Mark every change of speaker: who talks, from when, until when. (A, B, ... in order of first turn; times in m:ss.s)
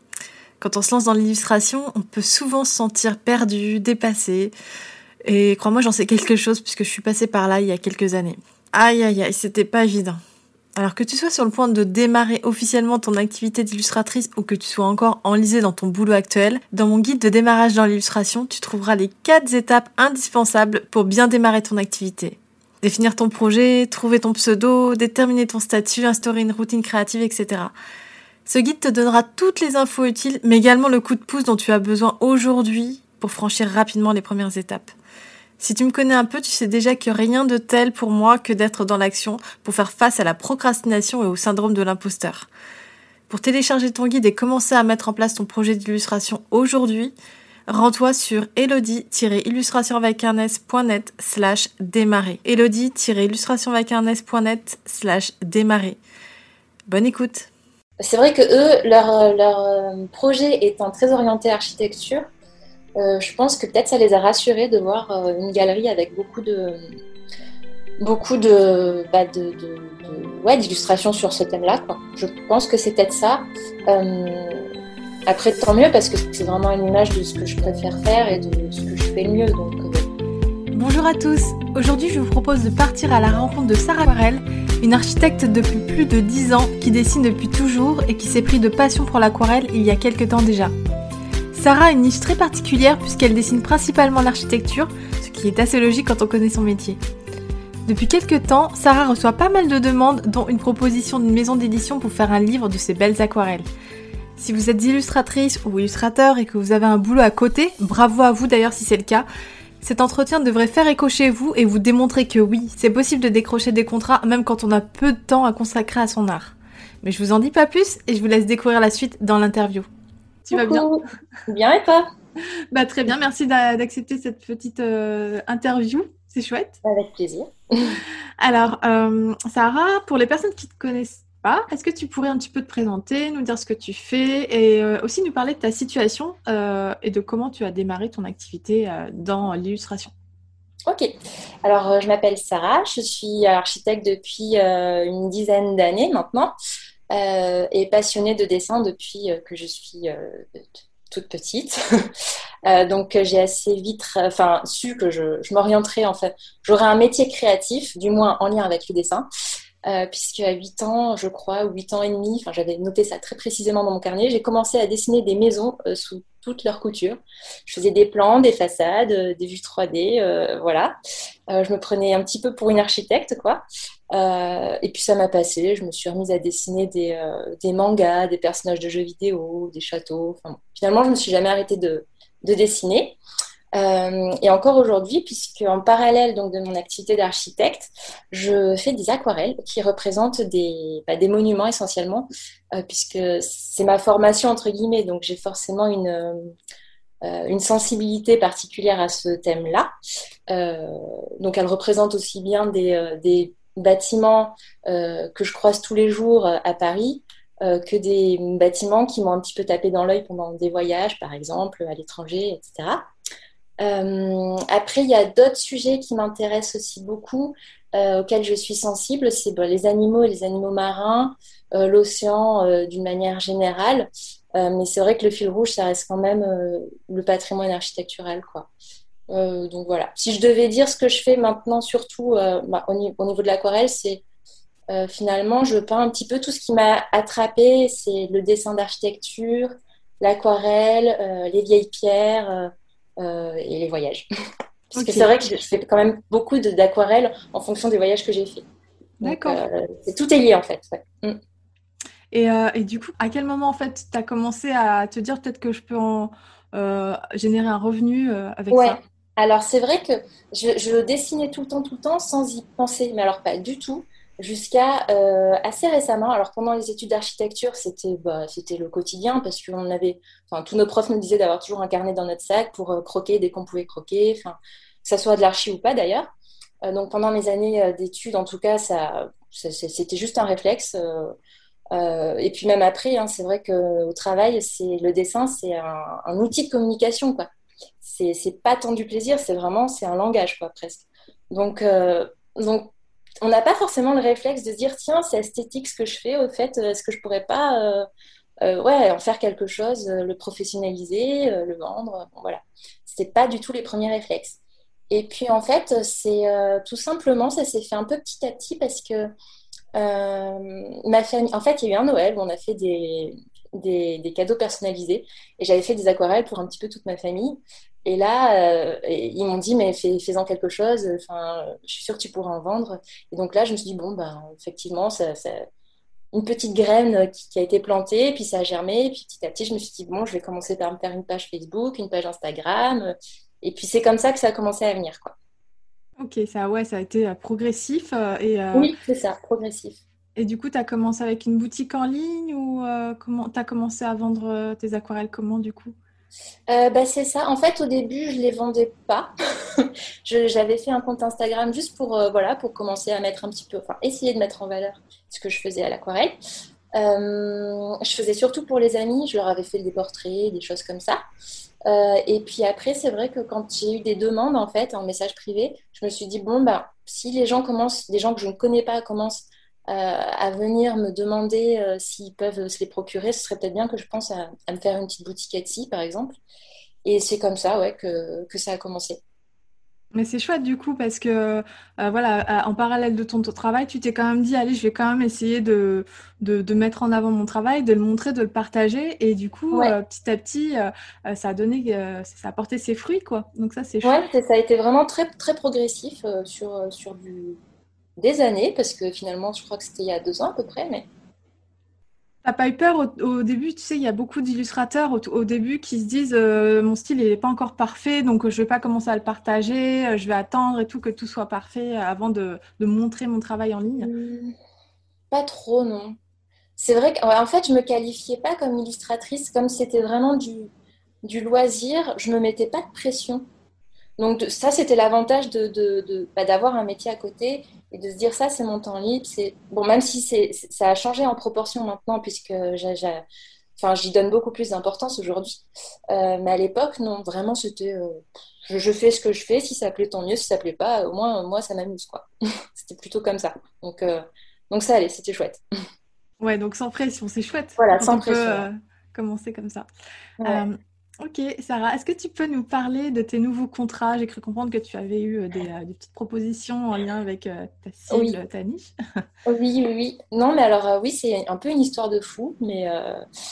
0:00.6-0:04.5 A
0:05.2-0:10.2 A
0:10.8-0:27.7 A
0:28.4-0:34.9 A
0:35.6-0:42.5 A
0:43.3-0:47.1 A
0:47.7-0:56.0 A
0:56.9-0:57.5 A
0:58.0-1:02.2 B
1:03.0-1:06.9 B
1:08.0-1:14.7 B
1:15.3-1:20.0 B
1:20.7-1:30.7 A
1:31.5-1:37.0 A
1:37.8-1:43.6 A
1:44.4-1:49.2 A
1:49.8-1:59.9 A
2:00.4-2:00.9 A
2:00.5-2:02.0 B
2:02.7-2:06.8 A
2:06.8-2:08.0 B
2:08.4-2:20.1 A
2:20.8-2:21.1 B
2:21.6-2:26.5 B
2:27.1-2:32.1 B
2:32.6-2:39.2 B
2:39.8-2:50.9 B
2:51.5-3:03.2 B
3:03.7-3:16.5 B
3:17.2-3:19.9 B
3:20.5-3:33.0 B
3:33.8-3:48.7 B
3:49.3-3:54.2 B
3:54.9-3:59.7 B
4:00.2-4:04.2 B
4:04.9-4:08.6 B
4:05.0-4:05.3 A
4:09.2-4:09.6 A
4:09.2-4:11.4 B
4:12.3-4:19.0 A
4:18.7-4:36.3 B
4:36.8-4:41.3 B
4:41.9-4:47.5 B
4:48.0-4:58.0 B
4:58.6-5:04.6 B
5:05.1-5:09.3 B
5:09.9-5:25.6 B
5:26.3-5:35.3 B
5:36.2-5:38.9 A
5:38.7-5:40.0 B
5:40.4-5:46.0 A
5:46.7-5:56.4 B
5:56.9-6:01.2 B
6:01.8-6:16.4 B
6:17.0-6:19.2 B
6:20.1-6:34.2 A
6:34.0-6:37.6 B
6:38.2-6:41.1 B
6:42.4-6:54.1 A
6:54.0-6:54.6 B
6:55.3-6:56.2 B
6:56.8-7:00.7 B
7:01.2-7:03.5 B
7:04.2-7:13.2 B
7:13.8-7:25.6 B
7:26.4-7:29.8 A
7:27.8-7:28.7 B
7:30.4-7:38.9 A
7:38.1-7:38.4 B
7:39.4-7:43.2 B